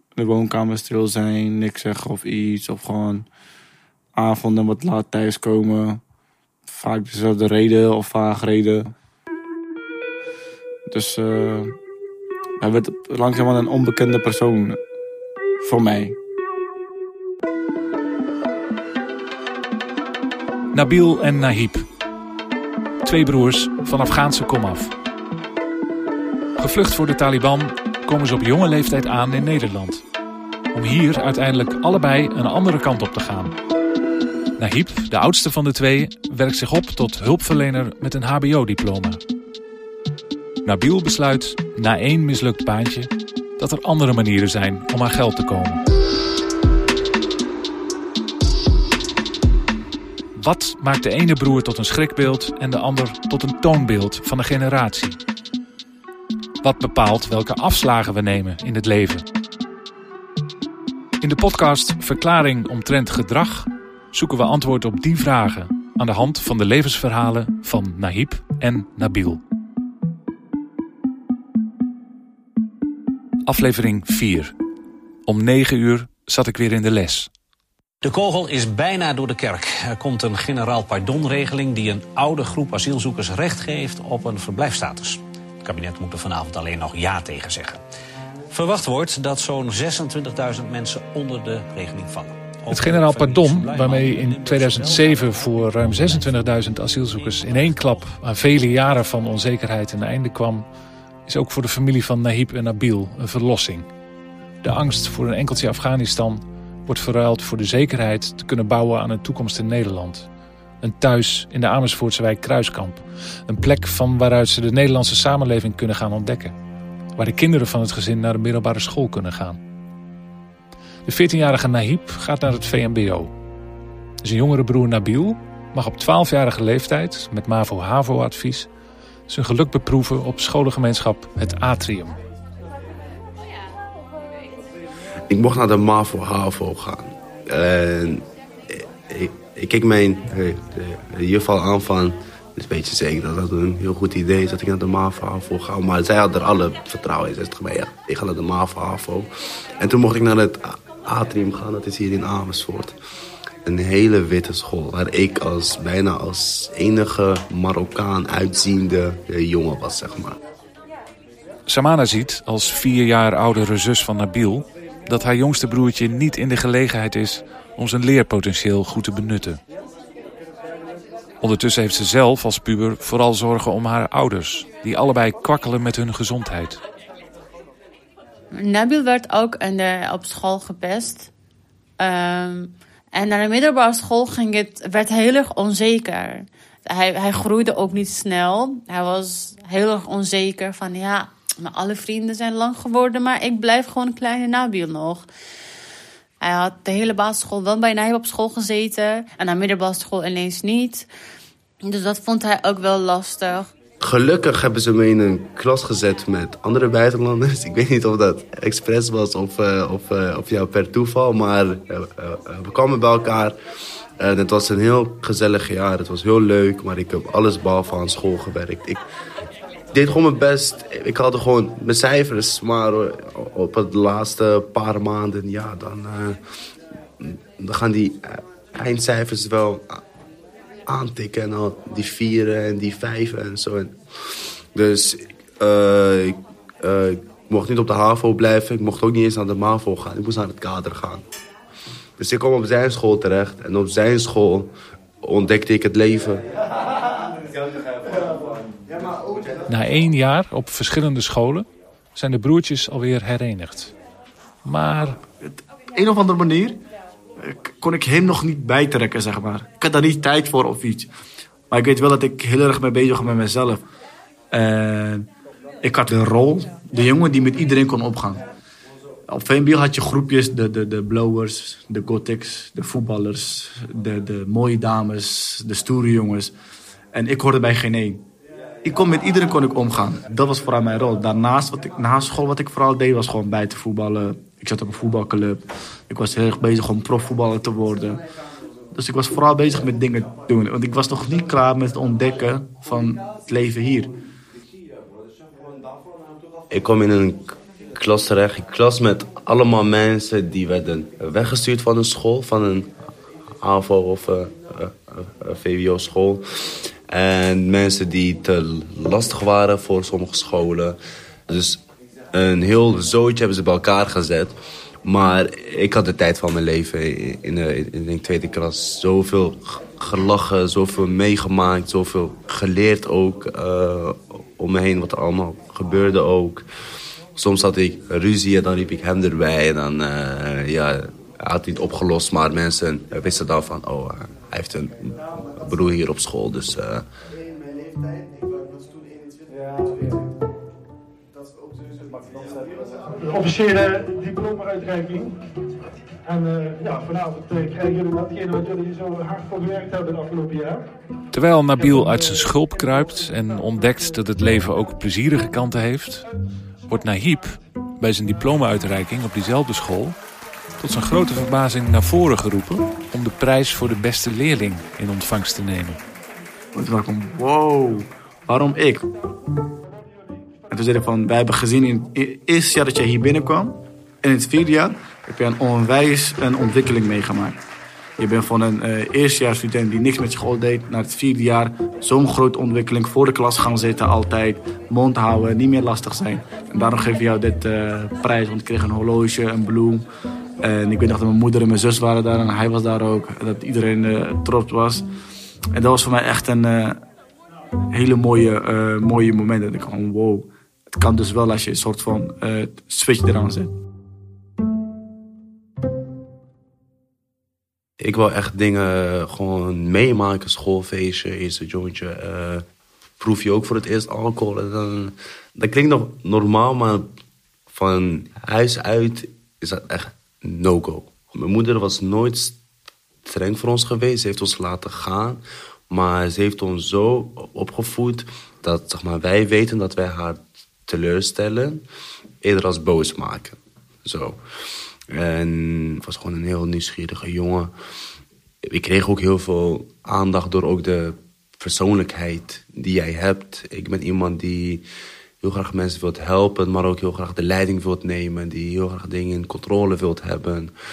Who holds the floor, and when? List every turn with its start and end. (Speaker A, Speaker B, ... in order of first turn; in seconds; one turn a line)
Speaker A: 0.1-3.2
Speaker A: 4.2-6.0
Speaker A: 6.7-8.9
Speaker A: 10.9-11.8
Speaker A: 12.6-14.8
Speaker A: 15.6-16.2
Speaker B: 20.7-21.8
Speaker B: 23.0-24.9
Speaker B: 26.6-30.0
Speaker B: 30.7-33.5
Speaker B: 34.6-39.2
Speaker B: 40.6-45.8
Speaker B: 50.4-55.2
Speaker B: 56.6-59.2
Speaker B: 61.2-69.4
Speaker B: 73.4-74.5
Speaker B: 75.2-77.3
Speaker C: 78.0-87.8
Speaker C: 88.5-96.4
Speaker B: 92.7-100.7
Speaker C: 97.2-97.8
Speaker B: 101.2-103.8
Speaker B: 104.6-110.3
Speaker B: 110.8-116.5
Speaker B: 117.2-119.6
Speaker B: 121.0-123.3
Speaker B: 124.2-128.7
Speaker B: 129.3-132.2
Speaker D: 135.3-152.9
Speaker D: 153.6-160.4
Speaker B: 161.7-169.6
Speaker B: 171.4-176.8
Speaker E: 178.5-181.3
Speaker E: 182.0-195.2
Speaker E: 196.4-201.1
Speaker E: 201.8-203.7
Speaker D: 204.0-213.6
Speaker D: 214.2-219.0
Speaker D: 219.9-226.4
Speaker D: 227.2-230.0
Speaker D: 230.8-241.2
Speaker D: 242.2-246.4
Speaker B: 249.7-253.9
Speaker B: 254.6-255.2
Speaker A: 255.4-256.8
Speaker A: 257.4-261.1
Speaker A: 261.7-263.8
Speaker A: 264.5-265.3
Speaker A: 265.8-268.4
Speaker A: 269.3-276.5
Speaker A: 277.1-278.2
Speaker A: 278.8-288.2
Speaker A: 288.9-294.1
Speaker D: 296.7-302.9
Speaker D: 303.6-311.0
Speaker D: 311.5-326.6
Speaker D: 327.4-337.1
Speaker F: 343.1-345.4
Speaker F: 346.2-350.9
Speaker B: 351.3-356.2
Speaker F: 351.8-352.4
Speaker B: 356.9-360.2
Speaker B: 360.8-366.0
Speaker A: 366.7-369.1
Speaker A: 370.7-377.6
Speaker A: 378.2-390.0
Speaker A: 390.6-395.0
Speaker A: 395.7-397.0
Speaker A: 397.9-403.7
Speaker D: 408.0-412.6
Speaker D: 413.2-417.1
Speaker D: 417.7-422.6
Speaker D: 423.2-431.8
Speaker D: 432.4-434.4
Speaker D: 435.1-437.7
Speaker D: 438.6-444.8
Speaker D: 445.4-450.7